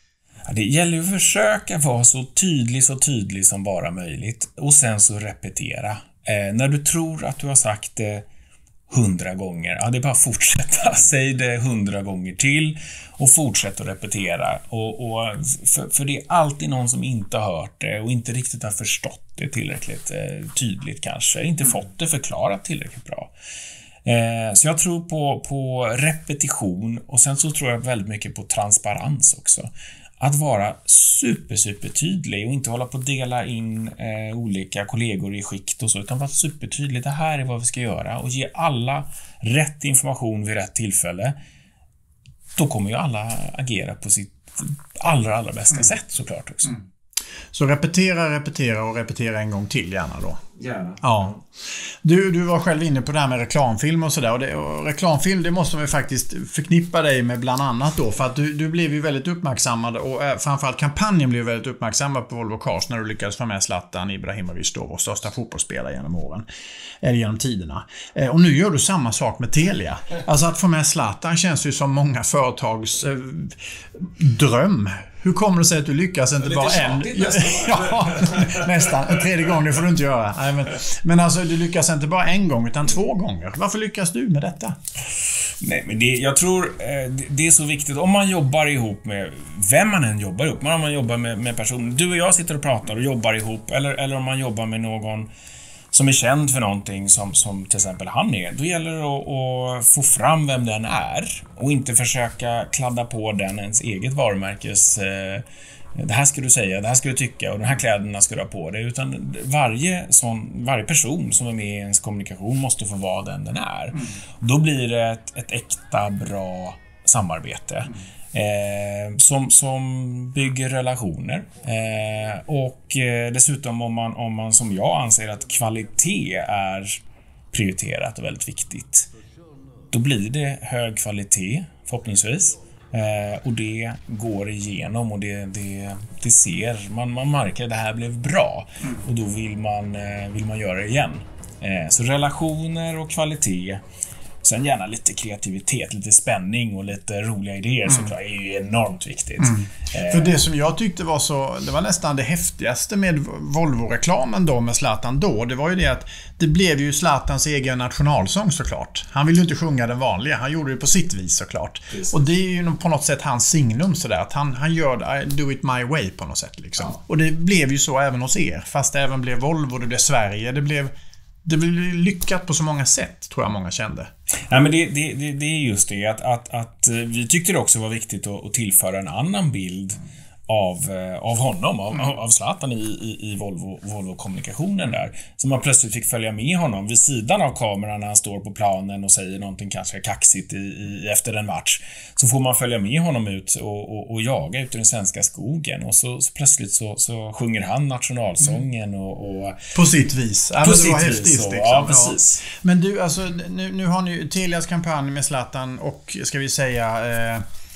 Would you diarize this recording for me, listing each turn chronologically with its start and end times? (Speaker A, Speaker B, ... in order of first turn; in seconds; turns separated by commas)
Speaker A: 0.5-8.2, Speaker A: 8.9-23.3, Speaker A: 24.0-41.3, Speaker A: 42.6-46.8, Speaker B: 47.5-50.4, Speaker A: 50.6-51.2, Speaker B: 51.0-51.4, Speaker B: 52.0-66.4, Speaker B: 67.0-84.7, Speaker A: 76.4-78.7, Speaker A: 85.6-95.3, Speaker A: 95.9-105.4, Speaker A: 106.0-127.0, Speaker A: 127.5-129.1, Speaker A: 129.9-143.8, Speaker A: 144.4-150.4, Speaker B: 149.4-170.9, Speaker B: 171.4-174.1, Speaker A: 174.5-199.6, Speaker B: 199.7-207.4, Speaker A: 200.6-202.5